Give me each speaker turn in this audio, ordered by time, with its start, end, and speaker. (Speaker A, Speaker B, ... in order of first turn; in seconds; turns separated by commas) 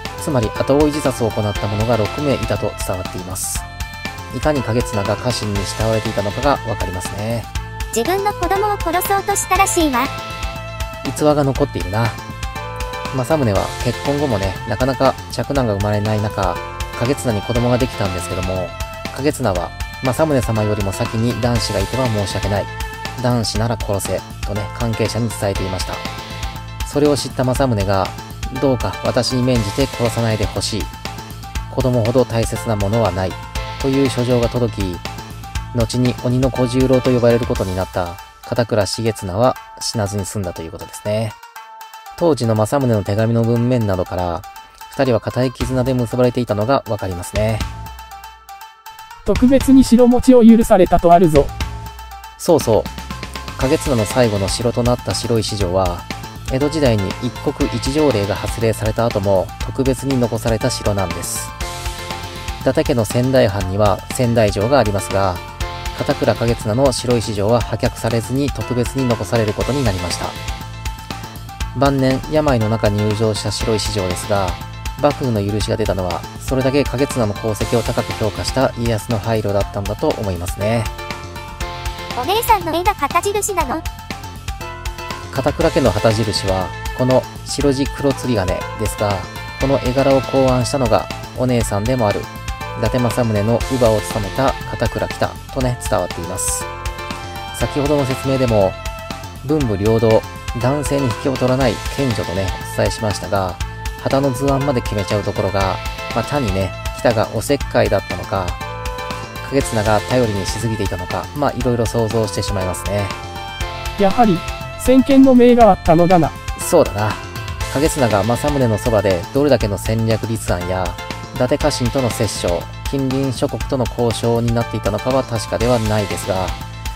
Speaker A: 0.2-3.6, Speaker A: 4.3-7.5, Speaker B: 7.9-10.1, Speaker A: 11.0-12.2, Speaker A: 13.1-26.0, Speaker A: 26.8-30.9, Speaker A: 31.7-35.0, Speaker A: 35.7-41.4, Speaker A: 42.2-47.7, Speaker C: 49.2-51.5, Speaker A: 52.4-52.9, Speaker A: 53.6-61.5, Speaker A: 62.6-70.4, Speaker A: 71.7-80.9, Speaker B: 82.1-83.8, Speaker A: 85.3-96.7, Speaker A: 97.5-98.8, Speaker A: 99.4-108.6, Speaker A: 109.4-113.2, Speaker C: 114.0-116.3, Speaker A: 116.5-126.6